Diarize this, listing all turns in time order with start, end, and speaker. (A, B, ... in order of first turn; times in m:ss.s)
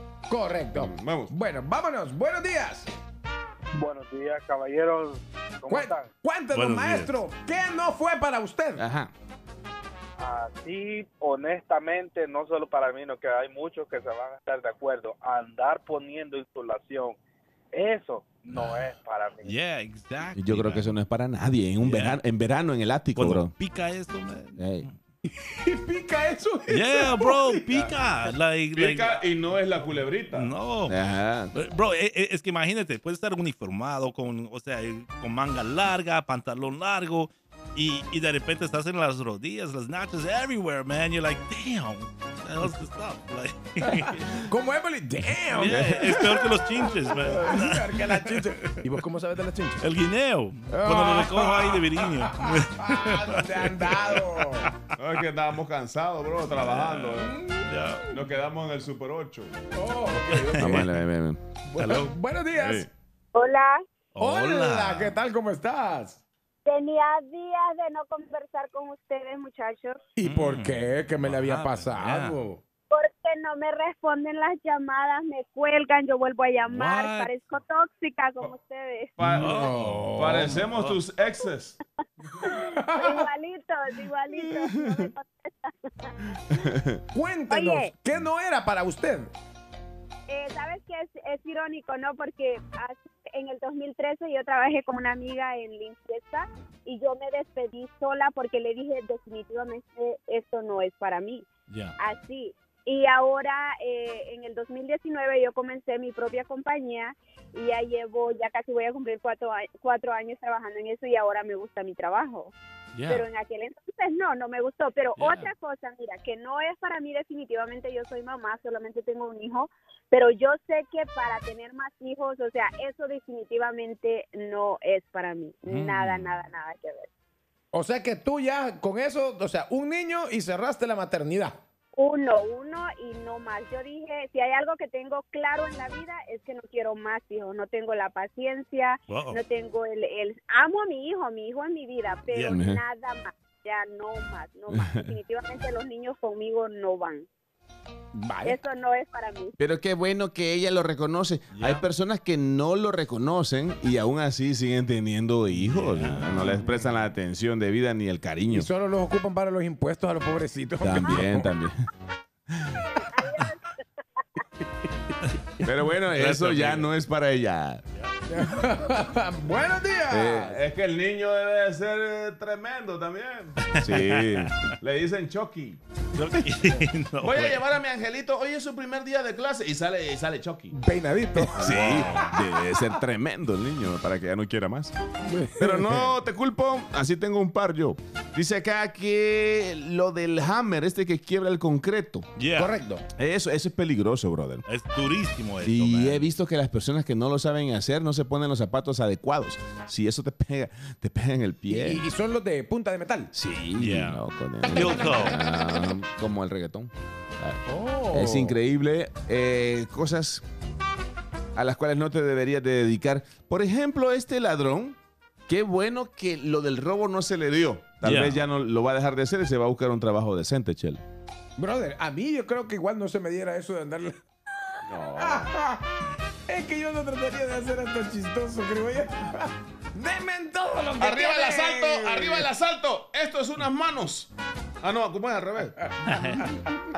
0:00.3-0:02.9 A
0:00.8-0:01.3 B
0:03.7-0:06.1 C
0:05.7-0:08.8 A
0:06.5-0:07.2 D
0:08.8-0:09.1 B
0:10.2-0:17.2 C
0:17.7-0:19.5 C
0:18.5-0:18.9 D
0:19.4-0:20.9 D
0:20.4-0:23.5 B
0:21.8-0:22.2 D
0:23.2-0:24.9 D
0:24.6-0:24.9 B
0:25.2-0:27.6 A
0:26.7-0:29.2 D
0:28.8-0:31.5 B
0:30.3-0:31.0 D
0:31.5-0:44.4 D
0:43.9-0:49.9 A
0:45.5-0:48.9 D
0:45.6-0:46.3 B
0:47.2-0:47.6 B
0:49.8-0:54.9 D
0:50.7-0:54.7 A
0:55.0-0:57.4 B
0:56.5-0:58.1 D
0:57.2-0:58.0 A
0:58.1-0:59.6 B
0:59.7-1:00.8 A
1:00.3-1:02.9 B
1:00.3-1:00.9 D
1:01.7-1:02.9 A
1:03.3-1:03.8 E
1:04.2-1:05.2 D
1:04.2-1:06.2 A
1:06.6-1:10.0 E
1:10.2-1:12.6 A
1:10.2-1:12.4 D
1:12.9-1:19.1 E
1:16.7-1:17.3 D
1:19.2-1:21.8 B
1:19.2-1:20.7 A
1:19.3-1:21.0 D
1:22.4-1:23.3 A
1:22.4-1:26.2 E
1:24.4-1:25.1 B
1:26.5-1:27.0 B
1:27.1-1:29.3 A
1:27.5-1:27.9 E
1:30.3-1:41.5 E
1:41.7-1:42.0 D
1:42.0-1:52.5 E
1:53.0-1:53.2 D
1:53.1-2:07.1 E
1:55.2-1:55.5 D
2:05.7-2:06.4 D
2:07.7-2:11.6 A
2:12.0-2:27.3 E
2:19.1-2:19.4 D
2:22.3-2:22.6 D
2:22.5-2:22.8 B
2:24.7-2:25.1 B
2:28.1-2:28.6 A
2:28.4-2:29.6 E
2:29.6-2:38.7 B
2:31.5-2:31.8 D
2:35.5-2:37.0 D
2:38.5-2:41.5 A
2:40.8-2:41.8 B
2:42.5-2:42.8 B
2:43.0-2:43.6 E
2:45.6-2:46.9 D
2:45.6-2:47.8 B
2:48.3-2:50.6 A
2:50.1-2:55.8 B
2:53.6-2:54.8 D
2:56.2-2:57.6 D
2:57.2-3:00.8 B
3:00.7-3:02.1 A
3:01.5-3:04.9 B
3:01.6-3:02.4 D
3:05.3-3:06.1 A
3:05.6-3:12.3 B
3:12.4-3:12.8 D
3:12.6-3:13.1 A
3:13.2-3:14.6 B
3:14.7-3:16.3 D
3:15.6-3:22.1 B
3:21.7-3:23.3 A
3:23.3-3:30.4 B
3:23.8-3:25.4 D
3:24.8-3:25.7 A
3:27.7-3:28.6 A
3:31.6-3:35.0 B
3:35.5-3:41.0 B
3:38.0-3:38.4 D
3:41.6-3:44.2 A
3:44.9-3:45.5 B
3:45.2-3:45.9 A
3:46.5-3:52.5 A
3:51.0-3:54.3 B
3:54.8-3:55.8 B
3:55.8-3:56.8 A
3:56.0-3:56.5 D